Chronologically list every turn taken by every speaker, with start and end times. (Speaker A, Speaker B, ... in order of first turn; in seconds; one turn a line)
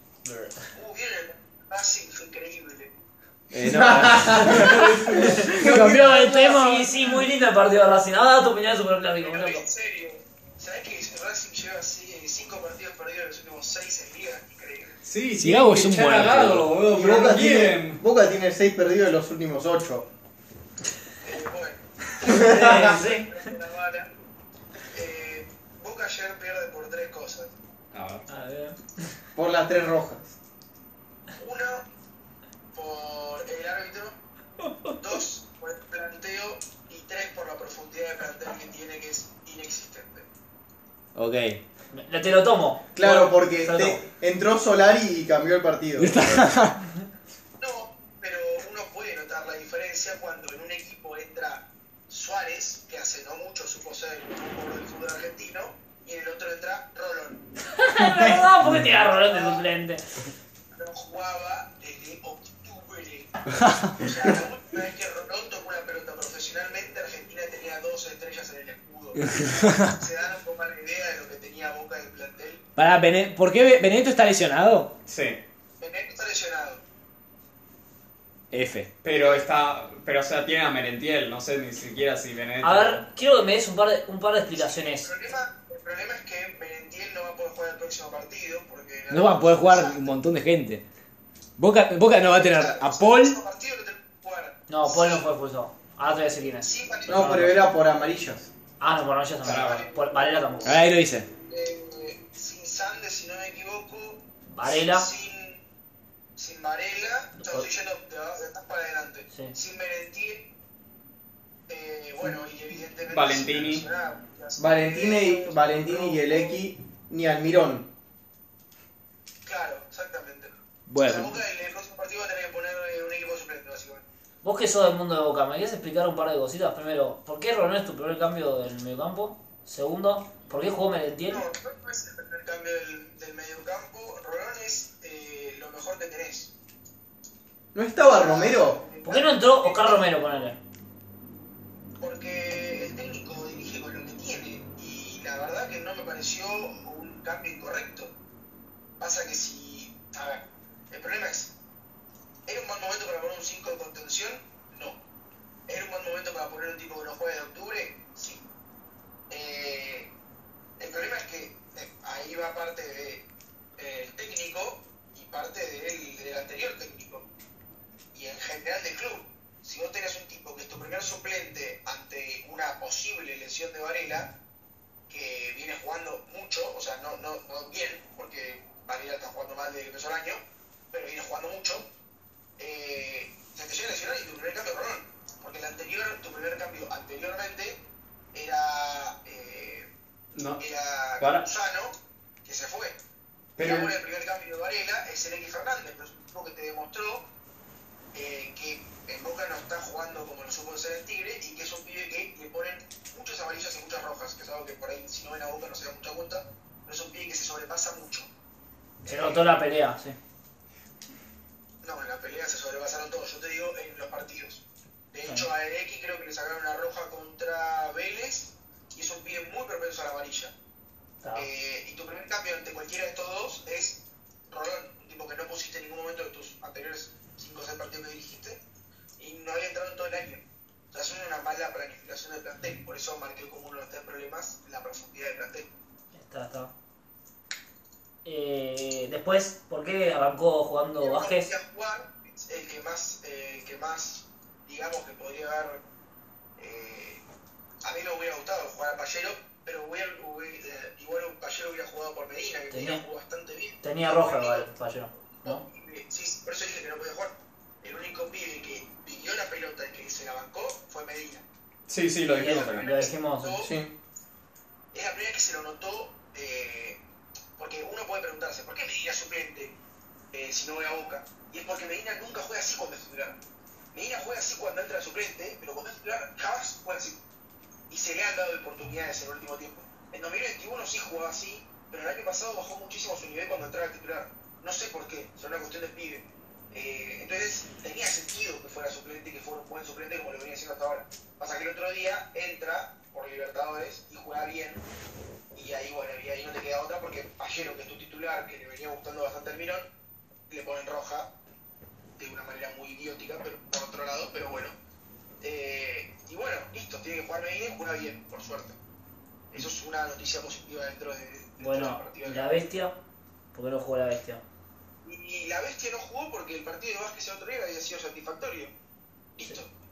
Speaker A: 0.2-0.5
Speaker B: 0.7-2.9
Speaker C: 3.5-6.9
Speaker D: 3.6-6.5
Speaker E: 4.4-9.6
Speaker B: 9.2-14.9
Speaker A: 15.1-18.0
Speaker C: 15.4-16.7
Speaker D: 16.9-20.1
Speaker B: 21.2-24.1
Speaker D: 22.2-23.1
Speaker E: 22.2-23.4
Speaker B: 24.9-27.5
Speaker A: 27.9-28.2
Speaker E: 28.3-29.1
Speaker D: 29.4-30.4
Speaker B: 31.4-31.9
Speaker B: 32.7-34.1
Speaker B: 35.0-40.3
Speaker C: 41.1-41.6
Speaker E: 41.9-44.0
Speaker D: 42.9-46.5
Speaker C: 46.0-46.8
Speaker B: 47.6-57.4
Speaker E: 57.7-60.0
Speaker B: 59.1-59.6
Speaker B: 60.7-63.3
Speaker B: 63.9-72.6
Speaker C: 69.4-69.9
Speaker C: 72.8-74.9
Speaker A: 75.1-75.4
Speaker B: 75.8-76.8
Speaker C: 78.5-78.9
Speaker A: 79.0-83.0
Speaker B: 79.1-79.4
Speaker E: 82.6-85.1
Speaker B: 84.5-90.1
Speaker C: 89.1-90.8
Speaker C: 91.6-93.4
Speaker B: 92.1-95.2
Speaker E: 94.7-97.5
Speaker B: 96.6-97.6
Speaker D: 97.1-98.5
Speaker E: 98.8-100.8
Speaker A: 99.4-99.9
Speaker B: 99.6-100.8
Speaker C: 100.6-101.3
Speaker B: 101.5-105.6
Speaker E: 104.5-105.1
Speaker B: 106.4-110.5
Speaker E: 107.4-107.7
Speaker E: 109.3-109.5
Speaker B: 111.7-116.6
Speaker A: 113.1-113.8
Speaker D: 114.6-117.9
Speaker B: 119.4-124.1
Speaker C: 120.9-121.4
Speaker E: 124.4-131.4
Speaker B: 131.3-136.5
Speaker D: 137.7-138.8
Speaker B: 138.0-140.1
Speaker E: 139.0-140.6
Speaker B: 142.0-148.1
Speaker B: 149.0-151.5
Speaker B: 152.5-155.0
Speaker B: 155.7-158.4
Speaker B: 159.3-160.1
Speaker B: 160.8-163.2
Speaker B: 163.8-167.2
Speaker B: 168.1-174.3
Speaker B: 175.1-181.9
Speaker B: 182.6-187.8
Speaker B: 188.3-189.9
Speaker A: 190.3-190.6
Speaker B: 190.6-193.0
Speaker A: 191.2-191.4
Speaker A: 193.6-193.9
Speaker B: 193.6-197.3
Speaker B: 198.1-208.3
Speaker B: 209.0-209.5
Speaker E: 209.0-210.2
Speaker B: 211.8-220.5
Speaker E: 221.2-221.5
Speaker B: 221.3-228.6
Speaker B: 229.2-235.7
Speaker E: 236.1-236.7
Speaker E: 238.2-241.5
Speaker B: 241.0-245.8
Speaker B: 246.6-247.2
Speaker B: 247.8-254.7
Speaker E: 252.7-253.0
Speaker E: 253.8-255.6
Speaker B: 255.4-261.4
Speaker A: 261.9-262.9
Speaker B: 262.4-263.7
Speaker E: 262.4-263.6
Speaker D: 263.6-263.9
Speaker B: 264.9-267.0
Speaker B: 267.6-269.8
Speaker B: 270.3-273.4
Speaker B: 273.9-277.2
Speaker B: 277.9-294.8
Speaker B: 295.5-299.9
Speaker B: 300.5-301.3
Speaker B: 302.2-304.7
Speaker B: 305.4-308.8
Speaker B: 309.5-312.5
Speaker E: 311.6-312.9
Speaker E: 313.5-314.4
Speaker B: 315.0-318.7
Speaker B: 319.4-319.7